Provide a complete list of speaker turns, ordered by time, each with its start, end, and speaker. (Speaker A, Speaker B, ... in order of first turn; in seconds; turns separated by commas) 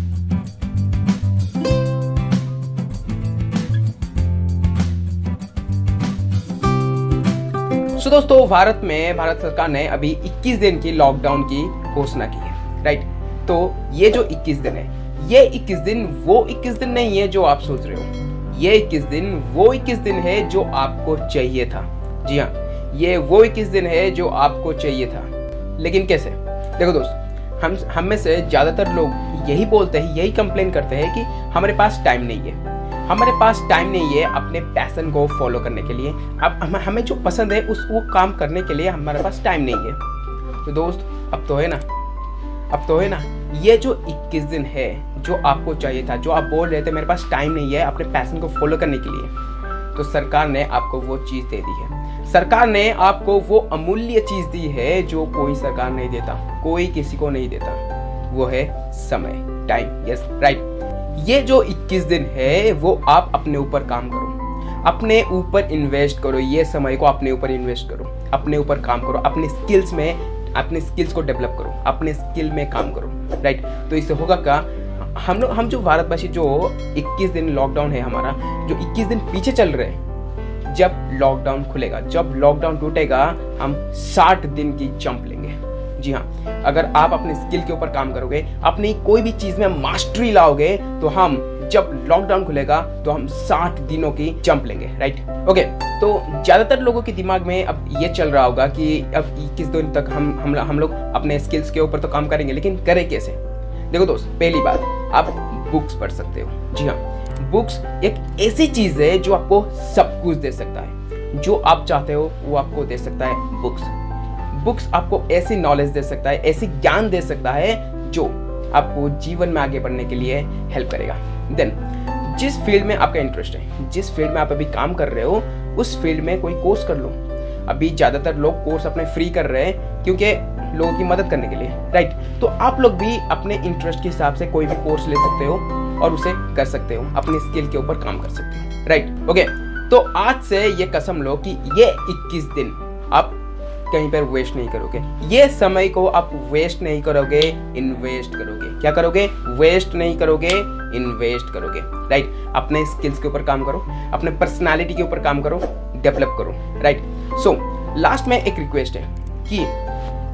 Speaker A: 8.0-40.0, Speaker A: 40.6-41.8, Speaker A: 42.7-49.3, Speaker A: 49.9-80.0, Speaker A: 80.6-103.4, Speaker A: 103.9-113.9, Speaker A: 114.5-143.4, Speaker A: 143.9-159.7